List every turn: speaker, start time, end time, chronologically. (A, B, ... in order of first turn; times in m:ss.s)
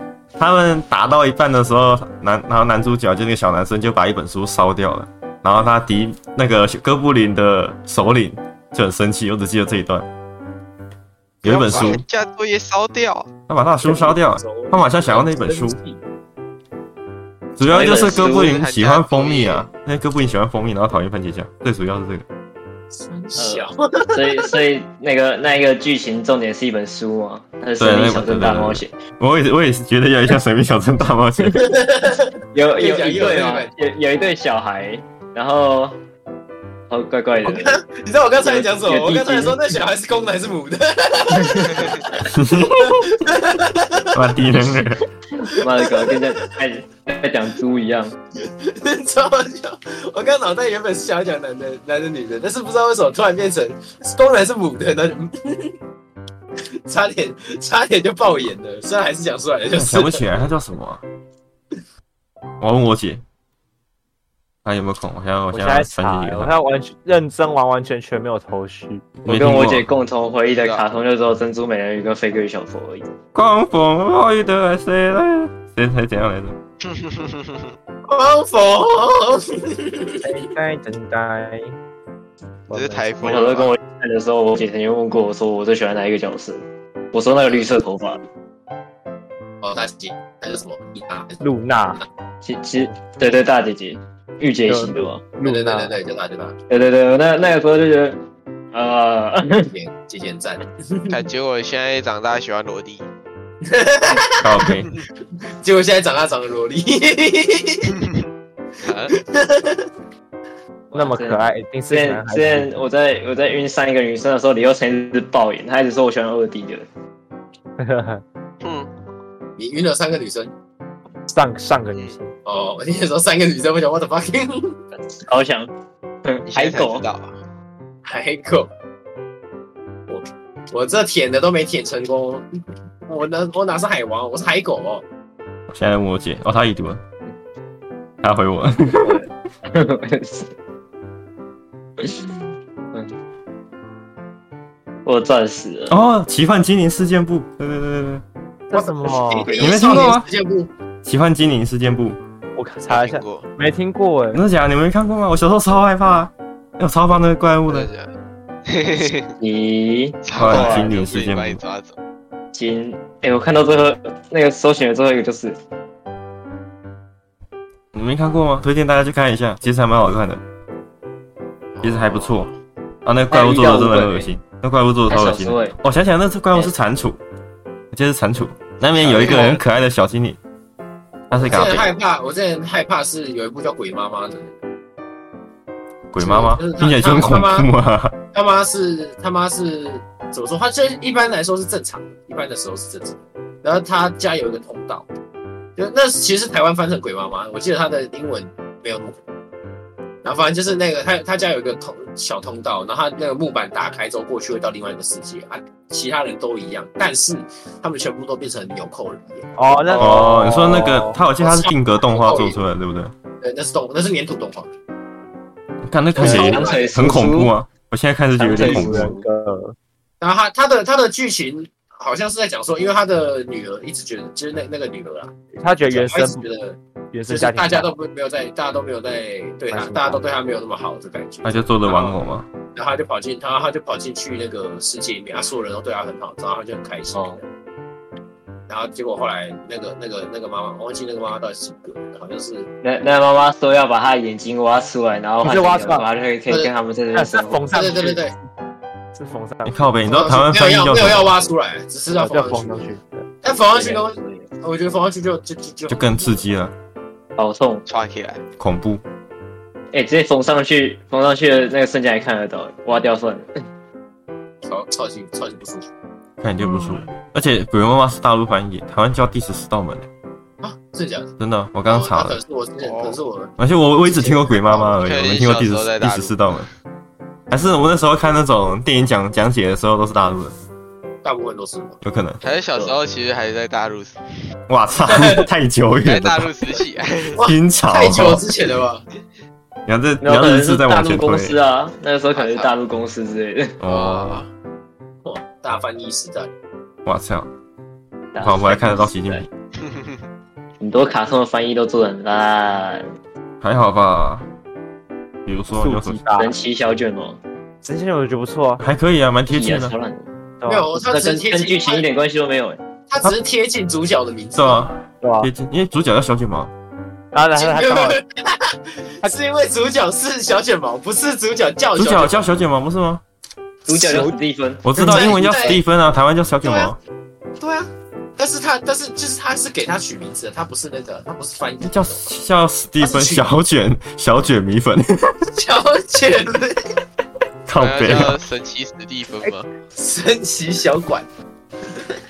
0:00.4-0:10.1 A
0:11.4-0:12.0 A
0:11.4-0:13.3 B
0:11.7-0:12.0 C
0:13.5-0:15.8 A
0:13.8-0:16.0 C
0:17.6-0:22.2 A
0:17.6-0:18.5 D
0:17.9-0:19.7 B
0:22.9-0:24.6 C
0:23.4-0:28.9 D
0:27.8-0:31.8 A
0:31.6-0:33.7 C
0:32.5-0:36.0 D
0:36.9-0:37.8 D
0:37.4-0:44.3 C
0:38.4-0:39.6 D
0:41.3-0:41.8 D
0:42.3-0:43.1 A
0:44.1-0:45.0 A
0:45.4-0:48.1 D
0:45.4-0:46.3 C
0:48.4-0:55.7 C
0:56.8-1:00.2 C
0:59.7-1:01.0 A
1:02.6-1:03.2 A
1:04.6-1:06.5 A
1:05.5-1:09.1 E
1:09.2-1:09.9 A
1:09.2-1:13.1 D
1:10.5-1:10.8 B
1:13.3-1:16.6 A
1:16.8-1:17.7 B
1:18.1-1:20.3 C
1:20.2-1:21.7 E
1:22.7-1:23.1 E
1:22.7-1:23.8 B
1:23.2-1:28.2 D
1:29.6-1:31.4 C
1:31.4-1:32.0 E
1:32.4-1:35.2 D
1:34.7-1:35.9 E
1:35.4-1:36.6 C
1:36.7-1:38.2 D
1:38.7-1:39.7 D
1:39.7-1:41.2 C
1:41.1-1:43.1 B
1:43.6-1:44.6 C
1:44.4-1:44.9 A
1:45.6-1:47.9 C
1:48.8-1:49.1 B
1:49.1-1:49.9 C
1:50.9-1:56.9 D
1:50.9-1:52.7 E
1:57.8-1:58.2 E
1:58.6-1:58.9 B
1:59.6-2:00.5 C
2:01.3-2:02.3 E
2:02.4-2:04.8 C
2:05.3-2:05.7 D
2:06.2-2:07.1 D
2:06.5-2:07.4 B
2:08.0-2:08.7 C
2:10.1-2:12.5 C
2:13.1-2:15.0 C
2:15.7-2:17.0 A
2:18.2-2:19.3 A
2:19.0-2:20.5 D
2:22.0-2:22.4 D
2:25.1-2:26.0 D
2:25.9-2:28.2 A
2:28.7-2:29.5 E
2:28.7-2:30.7 C
2:29.6-2:30.3 A
2:31.0-2:32.2 A
2:32.6-2:34.4 E
2:32.9-2:33.5 B
2:34.3-2:37.9 A
2:37.7-2:38.1 B
2:38.7-2:39.4 B
2:39.4-2:41.0 D
2:40.2-2:41.9 B
2:40.4-2:41.6 A
2:42.5-2:45.6 D
2:47.9-2:50.4 A
2:51.8-2:52.5 B
2:51.8-2:52.5 A
2:53.0-2:57.2 A
2:53.3-2:54.3 D
2:55.1-2:55.8 D
2:57.9-3:00.4 A
2:59.0-2:59.6 B
2:59.0-2:59.6 C
3:01.3-3:01.9 A
3:01.3-3:04.6 C
3:06.1-3:08.2 A
3:06.2-3:07.7 C
3:08.3-3:15.1 C
3:15.8-3:19.2 C
3:20.2-3:29.5 C
3:29.6-3:31.2 E
3:30.0-3:33.1 A
3:31.4-3:32.6 C
3:33.4-3:34.7 C
3:35.9-3:39.1 A
3:36.2-3:37.1 C
3:36.2-3:37.5 D
3:38.4-3:39.8 E
3:38.5-3:39.2 D
3:40.2-3:45.3 C
3:45.6-3:46.4 E
3:45.9-3:52.1 C
3:47.1-3:47.9 E
3:49.7-3:50.2 E
3:51.4-3:52.5 A
3:52.7-3:57.4 C
3:57.1-3:57.4 D
3:58.7-4:02.7 C
4:02.8-4:07.8 D
4:05.4-4:06.1 E
4:07.1-4:08.2 E
4:07.7-4:08.3 C
4:09.1-4:09.8 E
4:09.6-4:11.3 A
4:10.1-4:12.9 C
4:12.1-4:13.3 E
4:13.4-4:16.4 C
4:13.5-4:14.5 D
4:15.9-4:16.7 A
4:17.4-4:17.8 D
4:17.9-4:18.4 B
4:18.6-4:19.0 A
4:19.9-4:23.6 D
4:24.6-4:25.9 C
4:26.4-4:30.1 A
4:30.6-4:31.3 C
4:31.4-4:32.4 A
4:31.9-4:35.0 C
4:32.8-4:33.2 B
4:33.6-4:36.7 A
4:35.0-4:36.7 B
4:37.5-4:40.6 A
4:41.2-4:42.0 C
4:42.0-4:42.4 A
4:42.4-4:44.2 B
4:44.7-4:46.5 A
4:45.1-4:45.5 C
4:46.0-4:47.4 B
4:47.4-4:49.0 C
4:47.4-4:48.4 A
4:49.9-4:51.6 A
4:50.2-4:53.8 D
4:52.3-4:52.7 C
4:53.8-4:54.4 A
4:53.8-4:54.5 B
4:55.2-4:56.5 C
4:57.1-4:57.5 A
4:58.3-4:59.4 D
4:58.4-4:59.5 A
4:59.8-5:00.2 B
5:00.8-5:03.1 D
5:03.6-5:04.5 A
5:05.4-5:06.2 A
5:05.8-5:06.5 E
5:06.4-5:07.4 D
5:07.8-5:08.8 E
5:08.8-5:09.9 A
5:09.5-5:10.3 D
5:10.6-5:10.9 E
5:10.6-5:12.0 C
5:11.0-5:12.8 D
5:13.1-5:14.9 C
5:14.6-5:16.7 A
5:15.2-5:15.5 E
5:17.3-5:18.2 E
5:17.6-5:22.5 C
5:22.0-5:23.2 A
5:23.9-5:25.7 D
5:23.9-5:24.4 E
5:24.8-5:27.0 A
5:25.0-5:25.8 C
5:26.6-5:26.9 C
5:27.6-5:32.3 C
5:31.8-5:35.4 A
5:33.0-5:33.4 C
5:35.6-5:37.0 C
5:37.7-5:38.4 A
5:37.8-5:39.7 B
5:39.9-5:41.3 C